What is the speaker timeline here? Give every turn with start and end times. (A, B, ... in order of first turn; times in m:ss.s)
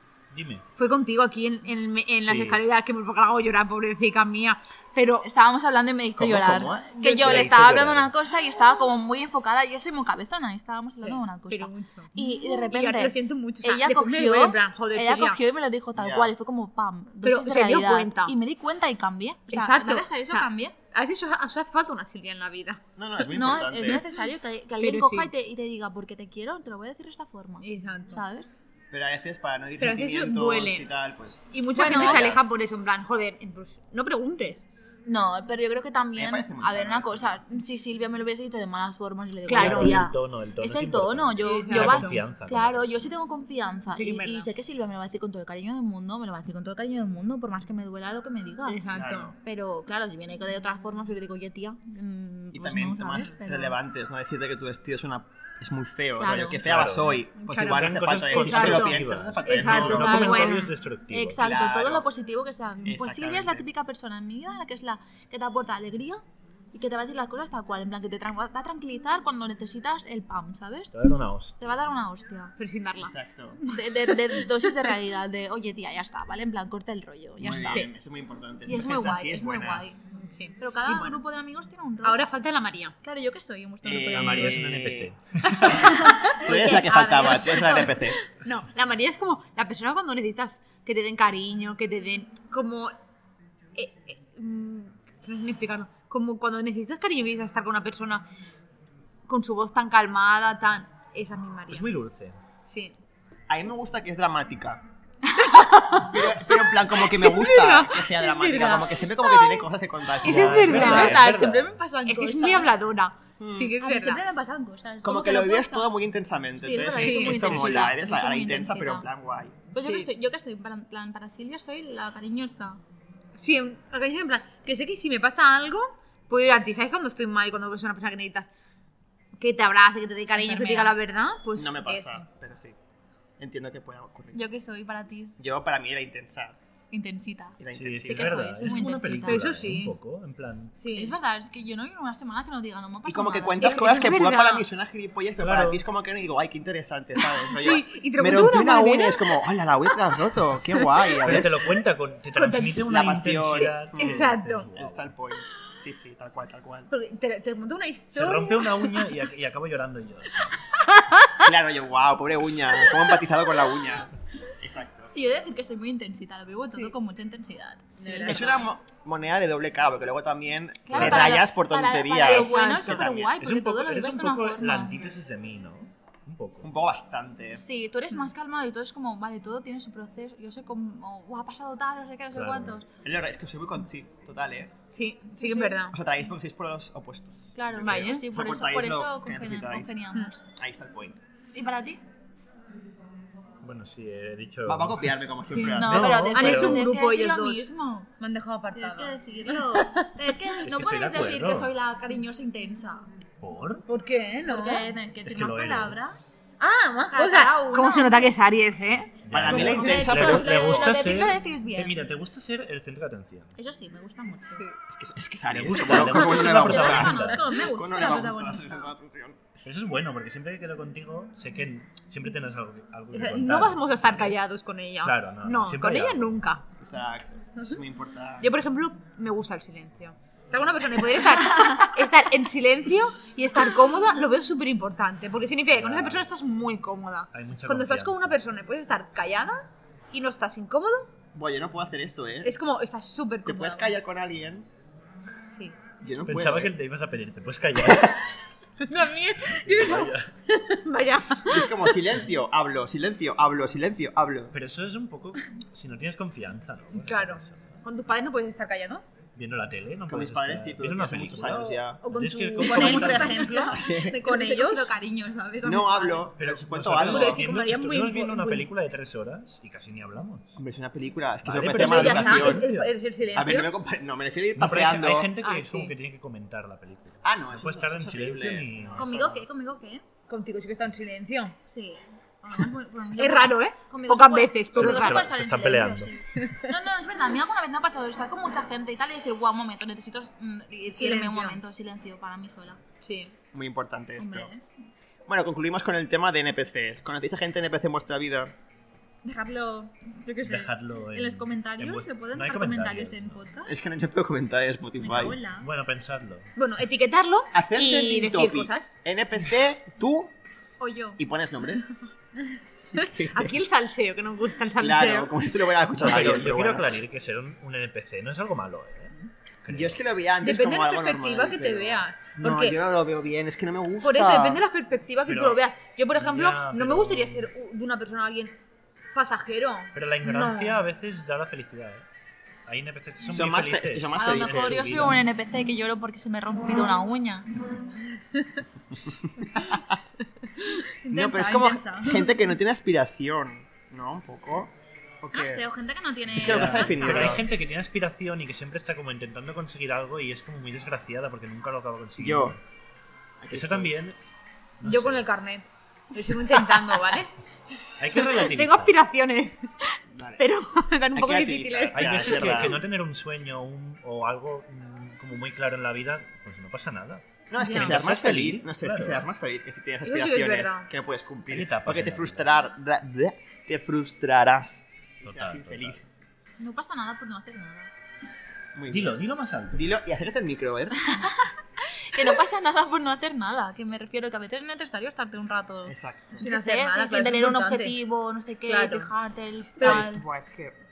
0:00.3-0:00.6 A
0:00.8-0:05.2 B
0:02.2-0:02.6 C
0:05.2-0:20.7 D
0:06.2-0:07.6 C
0:07.0-0:08.1 A
0:11.0-0:15.4 B
0:16.0-0:16.3 C
0:17.2-0:18.3 B
0:19.5-0:25.3 B
0:23.0-0:24.0 C
0:23.3-0:28.5 D
0:27.6-0:28.2 B
0:28.9-0:32.5 C
0:29.8-0:30.9 B
0:31.5-0:34.6 B
0:31.7-0:32.3 D
0:35.0-0:48.8 D
0:36.2-0:37.4 C
0:39.4-0:40.0 B
0:39.5-0:43.1 A
0:41.4-0:42.2 B
0:43.9-0:44.5 B
0:48.6-0:49.3 B
0:48.9-0:49.4 C
0:49.4-0:53.8 D
0:52.5-1:00.2 C
0:56.2-0:56.6 D
0:56.6-1:01.4 A
0:57.4-1:00.7 B
0:59.7-1:06.2 D
1:01.4-1:02.1 C
1:02.8-1:03.7 C
1:06.7-1:12.5 D
1:10.9-1:11.7 A
1:12.6-1:14.9 B
1:13.0-1:13.6 C
1:13.7-1:17.9 D
1:17.4-1:19.8 C
1:17.6-1:17.8 B
1:18.6-1:20.0 D
1:20.2-1:21.2 B
1:20.6-1:22.3 D
1:22.0-1:23.0 B
1:23.0-1:24.7 D
1:23.8-1:28.2 C
1:24.0-1:25.8 A
1:25.6-1:32.9 B
1:25.7-1:28.0 D
1:33.7-1:38.2 B
1:39.3-1:41.9 B
1:41.7-1:42.4 A
1:42.6-1:43.0 B
1:43.5-1:44.8 C
1:45.3-1:49.6 B
1:46.1-1:51.3 C
1:50.2-1:51.2 B
1:50.2-1:51.8 A
1:50.5-1:52.7 D
1:52.1-1:54.2 B
1:53.4-1:53.8 C
1:53.8-1:56.0 D
1:55.0-1:59.7 C
1:56.6-1:59.1 D
1:56.8-1:57.6 B
1:57.3-1:57.9 A
1:59.7-2:02.8 D
1:59.8-2:00.1 B
2:03.3-2:08.5 B
2:09.4-2:12.2 B
2:10.3-2:11.0 D
2:11.5-2:12.8 C
2:13.4-2:14.4 C
2:14.3-2:15.3 D
2:15.4-2:16.6 C
2:16.9-2:19.4 D
2:17.6-2:18.5 C
2:17.7-2:20.8 A
2:18.7-2:19.9 B
2:20.8-2:21.2 B
2:20.9-2:24.2 D
2:23.0-2:31.6 C
2:23.6-2:24.6 B
2:25.4-2:25.8 A
2:27.5-2:29.4 B
2:30.8-2:31.5 B
2:31.2-2:35.1 A
2:32.3-2:32.8 B
2:32.8-2:36.9 C
2:34.0-2:34.7 B
2:36.9-2:39.1 B
2:38.1-2:40.6 A
2:40.8-2:41.5 B
2:41.4-2:45.1 C
2:45.1-2:48.6 D
2:48.0-2:48.6 B
2:48.2-2:53.4 C
2:50.8-2:55.0 D
2:50.9-2:51.4 A
2:52.2-2:53.1 B
2:53.4-2:56.7 A
2:56.6-2:57.6 C
2:57.5-3:02.8 D
3:02.3-3:02.8 A
3:03.0-3:04.7 C
3:04.9-3:06.0 B
3:05.4-3:05.8 D
3:05.9-3:11.2 C
3:07.5-3:10.4 D
3:07.8-3:08.2 B
3:11.5-3:12.0 D
3:13.6-3:15.2 A
3:14.6-3:16.2 C
3:15.5-3:20.1 B
3:15.7-3:16.9 A
3:15.8-3:18.1 D
3:18.7-3:23.1 D
3:20.6-3:21.7 A
3:23.4-3:23.8 A
3:23.9-3:24.9 B
3:24.5-3:26.2 D
3:25.2-3:26.2 A
3:26.6-3:30.9 B
3:27.1-3:28.3 D
3:29.3-3:33.5 A
3:29.3-3:30.6 C
3:29.5-3:31.9 D
3:33.6-3:34.6 D
3:34.9-3:39.4 C
3:35.5-3:37.4 A
3:35.8-3:37.2 B
3:36.0-3:38.9 D
3:39.6-3:44.4 A
3:43.1-3:46.6 B
3:45.0-3:46.4 A
3:46.8-3:48.5 C
3:48.4-4:01.1 B
3:51.5-3:51.9 D
3:55.7-3:56.3 A
3:57.3-3:58.4 A
4:01.3-4:02.6 C
4:02.4-4:04.0 B
4:03.4-4:04.7 C
4:05.5-4:05.8 B
4:06.0-4:06.7 C
4:06.2-4:08.4 A
4:08.8-4:11.9 B
4:09.4-4:10.3 A
4:11.5-4:14.5 C
4:14.5-4:17.8 A
4:16.9-4:19.0 B
4:19.3-4:23.6 A
4:20.1-4:22.0 C
4:21.5-4:24.9 B
4:22.6-4:26.3 D
4:23.7-4:24.2 C
4:25.6-4:27.4 C
4:26.4-4:30.6 A
4:27.0-4:28.7 B
4:30.6-4:32.7 C
4:31.4-4:32.9 A
4:31.7-4:33.7 B
4:33.3-4:35.3 C
4:34.6-4:39.1 A
4:35.4-4:35.9 B
4:37.2-4:39.4 C
4:39.0-4:40.0 D
4:40.3-4:41.6 B
4:41.7-4:52.8 D
4:43.2-4:45.2 B
4:44.7-4:46.1 A
4:50.9-4:51.6 B
4:53.0-4:53.3 B
4:53.5-4:54.5 C
4:54.2-4:54.6 D
4:55.3-4:58.5 C
4:59.2-5:03.7 D
5:00.4-5:03.4 A
5:03.6-5:05.4 C
5:05.0-5:05.7 D
5:05.5-5:06.5 A
5:06.6-5:08.9 B
5:07.5-5:10.3 C
5:10.8-5:11.2 D
5:11.2-5:11.8 C
5:12.5-5:15.3 B
5:12.9-5:13.6 C
5:14.8-5:16.9 C
5:16.0-5:19.1 A
5:19.6-5:20.0 A
5:19.7-5:24.6 C
5:20.4-5:22.8 B
5:24.0-5:28.6 B
5:25.2-5:27.5 A
5:29.1-5:30.8 B
5:29.9-5:32.0 A
5:32.6-5:35.2 A
5:33.3-5:35.2 C
5:34.2-5:37.7 D
5:38.1-5:38.6 B
5:39.3-5:40.0 C
5:41.0-5:42.2 D
5:41.1-5:45.6 C
5:45.3-5:47.4 D
5:46.3-5:47.5 C
5:46.4-5:52.6 A
5:52.2-5:52.6 C
5:53.4-5:53.9 C
5:53.5-5:54.2 A
5:54.8-5:55.3 A
5:54.8-5:57.3 B
5:58.0-5:59.0 A
5:58.2-6:02.8 B
6:00.1-6:00.4 C
6:01.1-6:02.8 C
6:01.9-6:09.3 A
6:07.5-6:16.1 C
6:07.6-6:07.9 B
6:10.0-6:10.9 B
6:11.5-6:12.5 A
6:15.2-6:16.0 A
6:16.6-6:17.9 D
6:18.7-6:19.2 C
6:18.9-6:19.9 A
6:19.7-6:21.0 C
6:21.0-6:30.2 D
6:25.8-6:26.4 C
6:26.4-6:28.0 B
6:28.7-6:29.1 B
6:29.8-6:30.0 B
6:29.8-6:30.8 C